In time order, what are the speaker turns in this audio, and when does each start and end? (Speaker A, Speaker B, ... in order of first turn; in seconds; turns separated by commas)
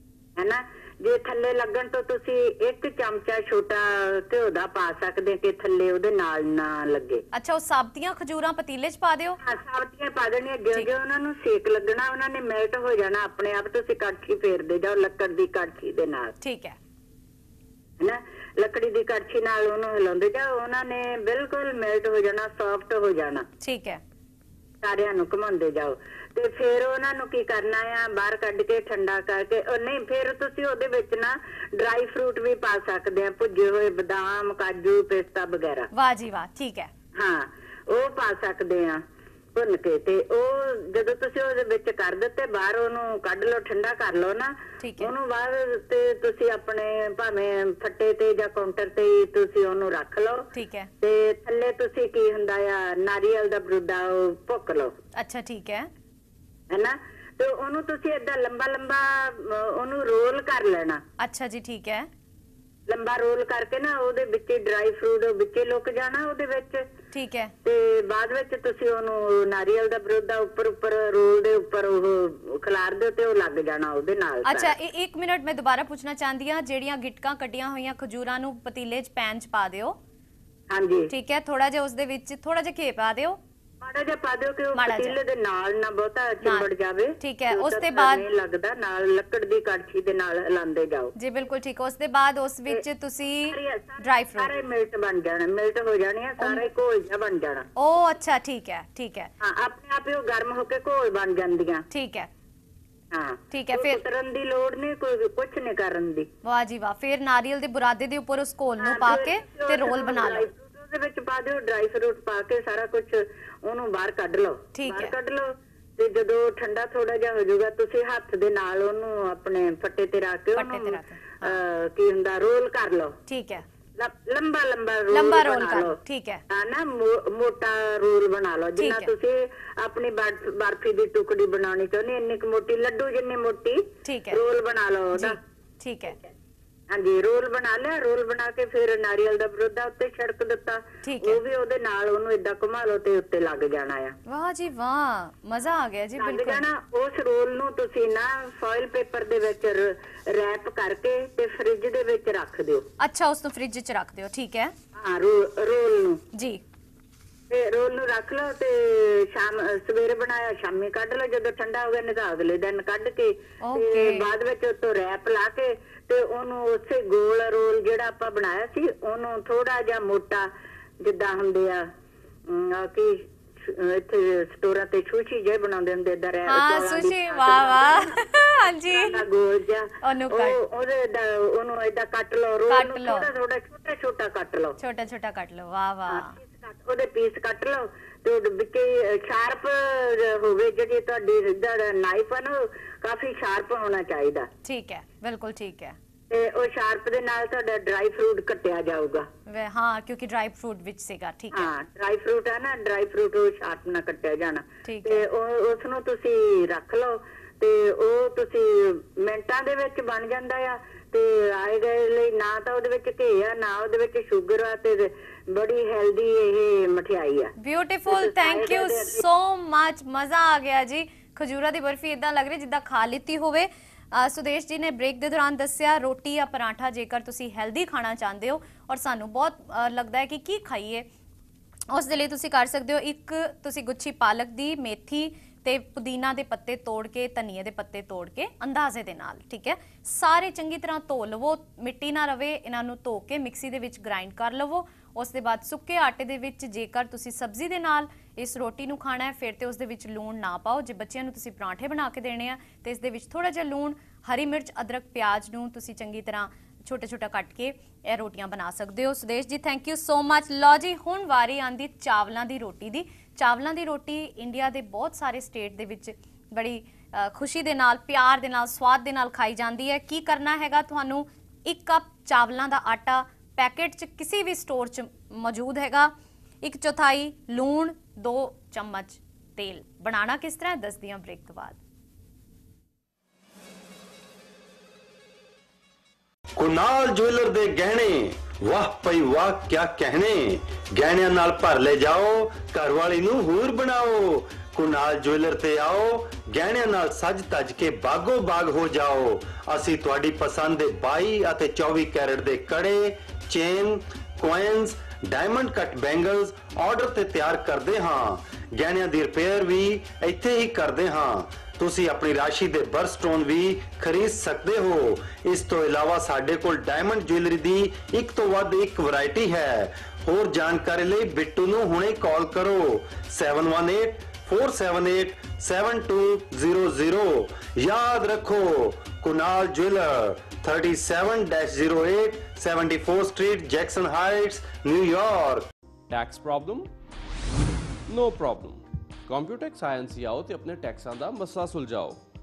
Speaker A: 0.4-7.2, Speaker B: 7.3-9.4, Speaker A: 9.4-16.3, Speaker B: 16.4-16.8, Speaker A: 18.0-23.4, Speaker B: 23.6-24.0, Speaker A: 24.8-35.9, Speaker B: 35.9-36.9, Speaker A: 37.2-39.0, Speaker A: 39.5-50.4, Speaker B: 44.8-45.1, Speaker B: 50.5-50.9, Speaker A: 51.0-54.9, Speaker B: 55.1-55.9, Speaker A: 56.7-61.0, Speaker B: 61.2-62.1, Speaker A: 62.9-66.8, Speaker B: 67.1-67.5, Speaker A: 67.6-74.8, Speaker B: 74.4-80.0, Speaker A: 80.7-81.1, Speaker B: 81.1-83.4, Speaker A: 83.8-91.1, Speaker B: 84.7-85.2, Speaker B: 86.4-86.7, Speaker B: 87.2-88.2, Speaker B: 91.2-94.5, Speaker A: 93.5-97.7, Speaker B: 97.8-99.3, Speaker A: 99.4-101.8, Speaker B: 101.9-102.3, Speaker A: 103.1-106.3, Speaker B: 103.5-104.0, Speaker B: 106.4-110.5, Speaker A: 108.8-123.1, Speaker B: 114.7-115.1, Speaker B: 120.5-121.6, Speaker B: 123.3-123.6, Speaker A: 124.0-126.0, Speaker B: 125.1-126.4, Speaker A: 126.5-135.4, Speaker B: 128.8-129.1, Speaker B: 134.0-134.4, Speaker B: 135.1-136.2, Speaker A: 136.9-144.2, Speaker B: 141.0-141.4, Speaker B: 144.3-146.6, Speaker A: 146.2-152.9, Speaker B: 153.0-154.7, Speaker A: 154.9-156.2, Speaker B: 156.3-156.6, Speaker A: 157.5-170.5, Speaker B: 163.6-164.3, Speaker A: 171.0-171.9, Speaker A: 172.5-178.2, Speaker B: 176.5-179.2, Speaker A: 178.9-184.8, Speaker B: 180.0-180.6, Speaker B: 182.7-183.3, Speaker B: 184.8-186.3, Speaker A: 186.1-194.5, Speaker B: 194.6-196.0, Speaker A: 196.3-199.3, Speaker B: 199.5-201.7, Speaker A: 201.5-217.5, Speaker B: 204.8-205.2, Speaker B: 217.6-231.1, Speaker A: 218.1-219.2, Speaker B: 231.9-281.8, Speaker C: 286.6-335.6, Speaker D: 336.1-336.9, Speaker D: 338.1-342.2